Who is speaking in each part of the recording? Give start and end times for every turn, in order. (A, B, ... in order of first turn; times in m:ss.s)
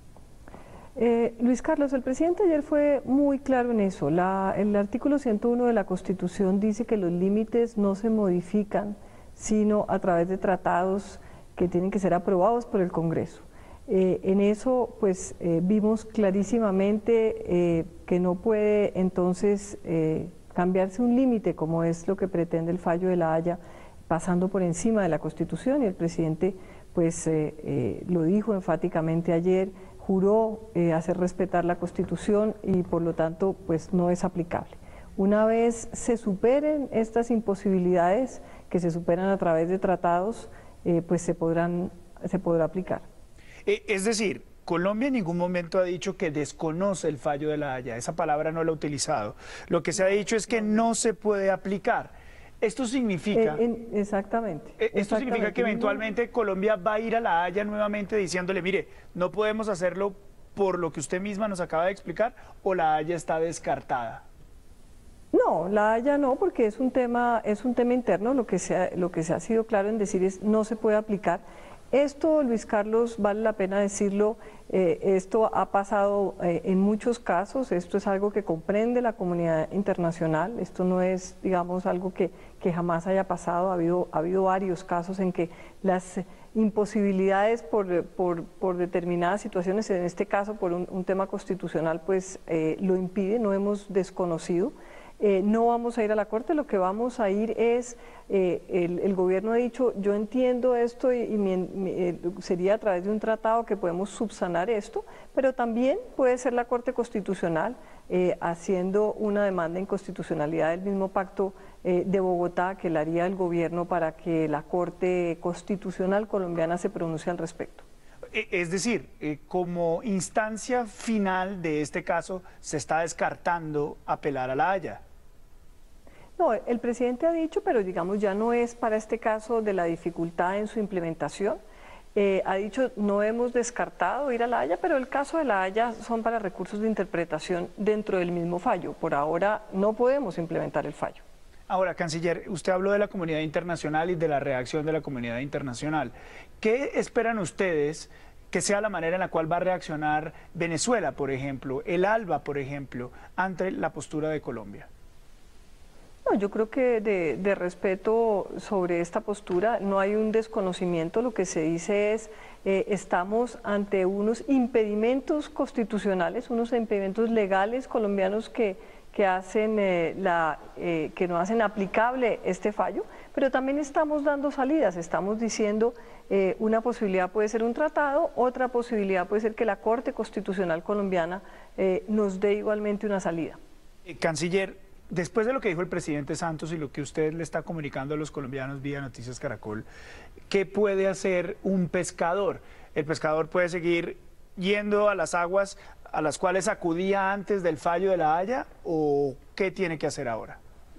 0:01.0-0:43.1 A
0:43.7-0:53.6 B
0:53.4-0:56.0 A
0:54.8-1:04.2 B
1:05.3-1:57.8 A
1:58.3-2:05.0 B
2:06.4-2:11.6 A
2:12.2-2:21.2 A
2:21.7-2:34.9 B
2:36.3-3:03.6 A
3:04.1-3:09.9 B
3:10.5-3:20.6 B